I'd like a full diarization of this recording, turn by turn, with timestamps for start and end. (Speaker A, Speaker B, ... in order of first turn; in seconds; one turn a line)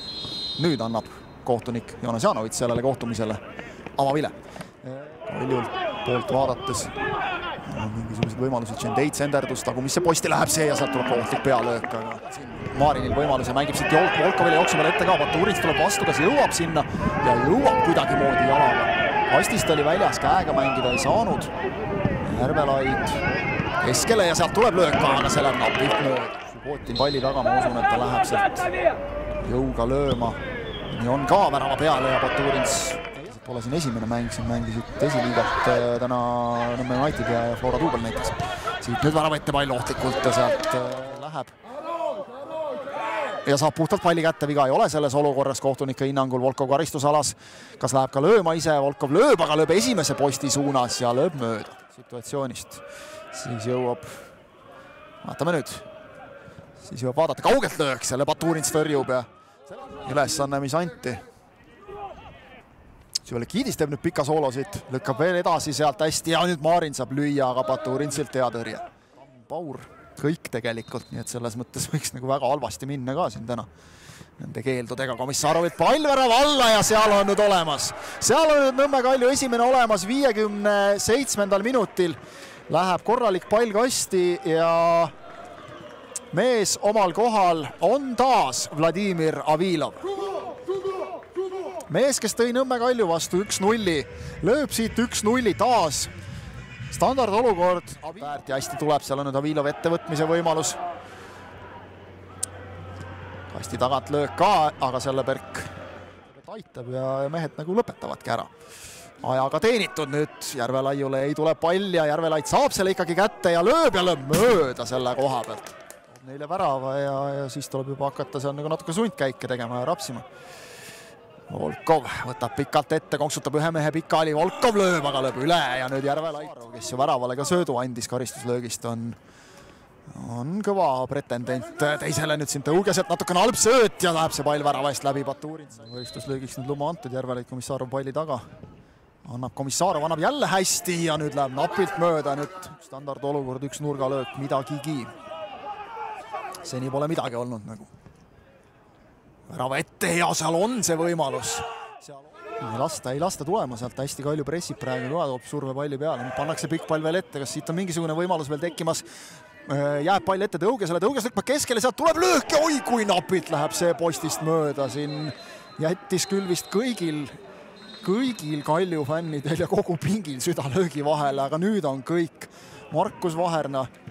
Speaker A: 0.6-3.4
Speaker A: 4.0-6.9
Speaker A: 7.6-21.5
Speaker A: 22.2-23.2
Speaker A: 23.8-28.6
Speaker A: 29.4-41.5
Speaker A: 43.4-54.2
Speaker A: 55.2-55.9
Speaker A: 56.8-61.2
Speaker A: 63.2-73.7
Speaker A: 74.4-85.1
Speaker A: 86.3-90.0
Speaker A: 91.9-96.1
Speaker A: 96.9-100.8
Speaker A: 103.5-105.7
Speaker A: 106.3-108.5
Speaker A: 109.2-120.3
Speaker A: 121.5-129.2
Speaker A: 130.1-138.5
Speaker A: 139.2-145.1
Speaker A: 146.6-147.9
Speaker A: 149.5-159.1
Speaker A: 159.6-167.4
Speaker A: 168.0-173.9